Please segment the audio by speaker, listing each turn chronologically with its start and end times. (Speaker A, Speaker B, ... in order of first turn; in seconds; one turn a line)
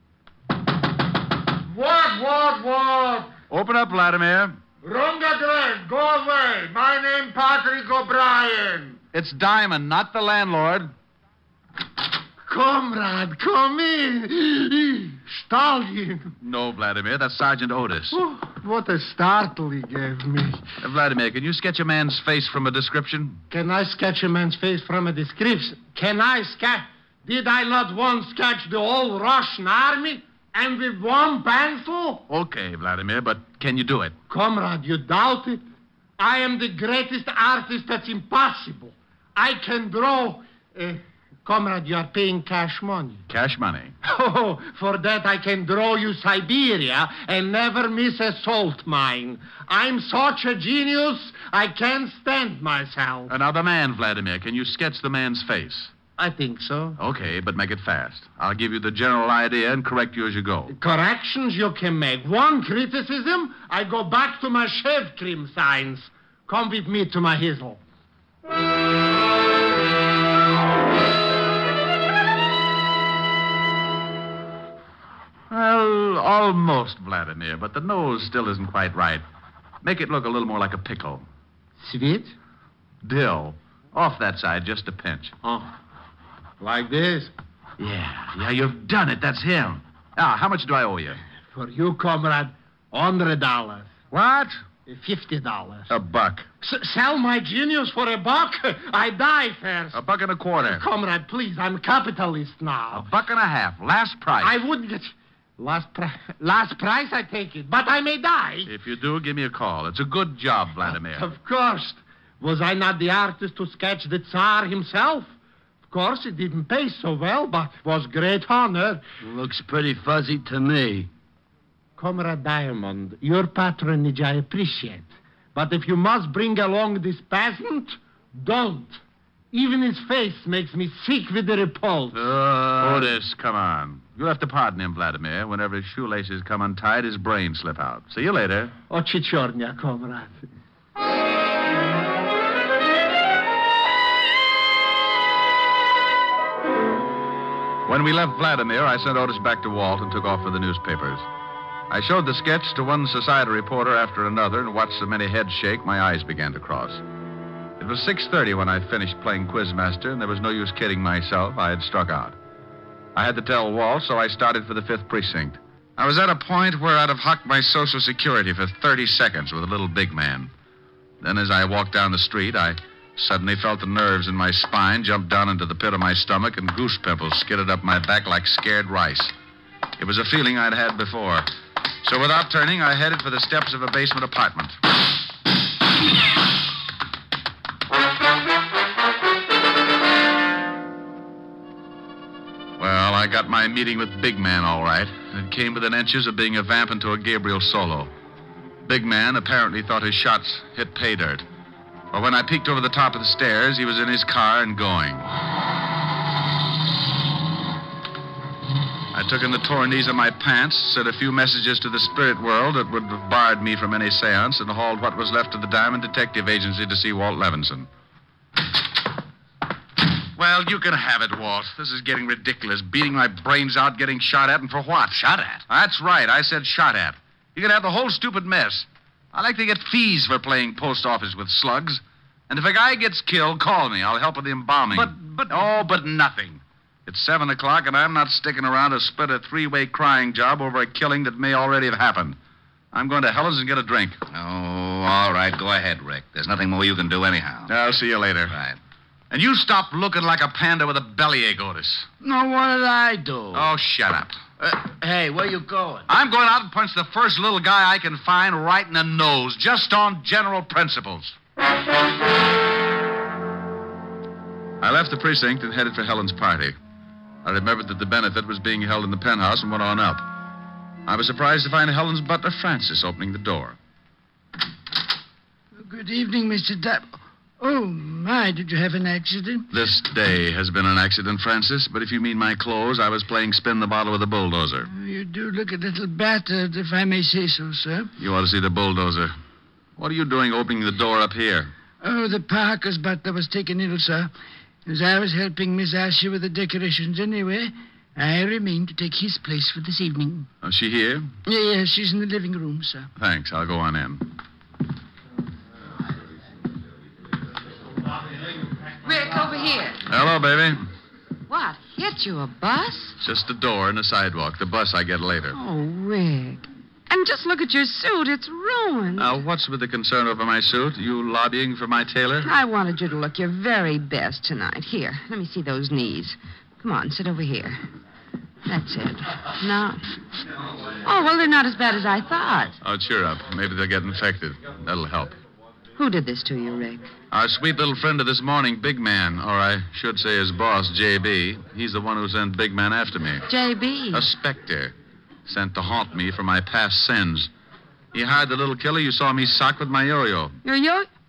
Speaker A: 1.7-3.3
Speaker B: 3.5-4.6
Speaker A: 4.8-9.0
Speaker B: 9.1-10.9
Speaker A: 12.5-16.3
Speaker B: 16.4-18.2
Speaker A: 18.1-20.6
Speaker B: 20.8-23.4
Speaker A: 23.5-32.2
Speaker B: 32.3-34.1
Speaker A: 34.3-35.6
Speaker A: 36.2-43.2
Speaker B: 43.3-44.0
Speaker A: 44.0-53.3
Speaker B: 53.3-55.9
Speaker A: 56.2-57.0
Speaker B: 57.0-60.7
Speaker A: 60.7-67.8
Speaker B: 75.5-79.2
Speaker B: 79.8-81.2
Speaker A: 81.8-82.3
Speaker B: 83.0-85.3
Speaker A: 85.4-85.7
Speaker A: 86.6-87.3
Speaker B: 87.8-91.2
Speaker A: 91.5-93.9
Speaker B: 94.1-94.6
Speaker A: 94.8-95.9
Speaker B: 95.9-96.5
Speaker A: 96.6-100.0
Speaker B: 99.9-100.8
Speaker A: 100.6-103.1
Speaker B: 102.9-104.6
Speaker A: 104.4-108.7
Speaker B: 108.7-111.3
Speaker A: 111.0-115.3
Speaker A: 115.9-119.0
Speaker C: 119.2-121.1
Speaker A: 122.0-129.0
Speaker A: 129.5-132.3
Speaker B: 132.1-138.7
Speaker A: 138.9-140.4
Speaker B: 147.8-151.2
Speaker B: 151.9-157.0
Speaker B: 157.8-162.3
Speaker B: 163.1-170.5
Speaker B: 171.2-179.3
Speaker B: 180.0-181.5
Speaker B: 182.0-184.8
Speaker B: 192.8-198.1
Speaker B: 198.8-201.4
Speaker B: 202.1-205.3
Speaker B: 209.1-217.9
Speaker B: 220.3-242.4
Speaker D: 225.2-225.6
Speaker B: 242.9-244.2
Speaker D: 244.3-247.7
Speaker B: 247.7-248.6
Speaker D: 248.5-248.8
Speaker B: 249.3-252.1
Speaker C: 252.2-253.7
Speaker B: 253.5-254.4
Speaker C: 254.6-256.1
Speaker B: 256.1-261.3
Speaker B: 264.8-266.8
Speaker B: 267.4-270.3
Speaker B: 271.1-273.8
Speaker C: 275.8-277.0
Speaker C: 277.6-279.6
Speaker B: 279.7-284.9
Speaker C: 284.9-288.1
Speaker B: 288.2-289.3
Speaker B: 290.0-291.7
Speaker C: 292.0-294.3
Speaker C: 294.9-300.4
Speaker B: 300.6-301.3
Speaker C: 301.4-303.1
Speaker B: 303.1-304.2
Speaker E: 309.0-310.0
Speaker B: 310.1-310.8
Speaker E: 311.5-313.2
Speaker B: 313.2-315.6
Speaker E: 315.5-319.3
Speaker B: 319.1-322.5
Speaker E: 322.4-327.8
Speaker E: 328.7-330.0
Speaker E: 331.0-332.8
Speaker B: 332.8-335.4
Speaker E: 336.0-337.1
Speaker B: 337.3-343.5
Speaker E: 343.5-344.3
Speaker B: 344.1-344.9
Speaker B: 345.4-347.5
Speaker B: 348.1-350.6
Speaker E: 350.6-351.1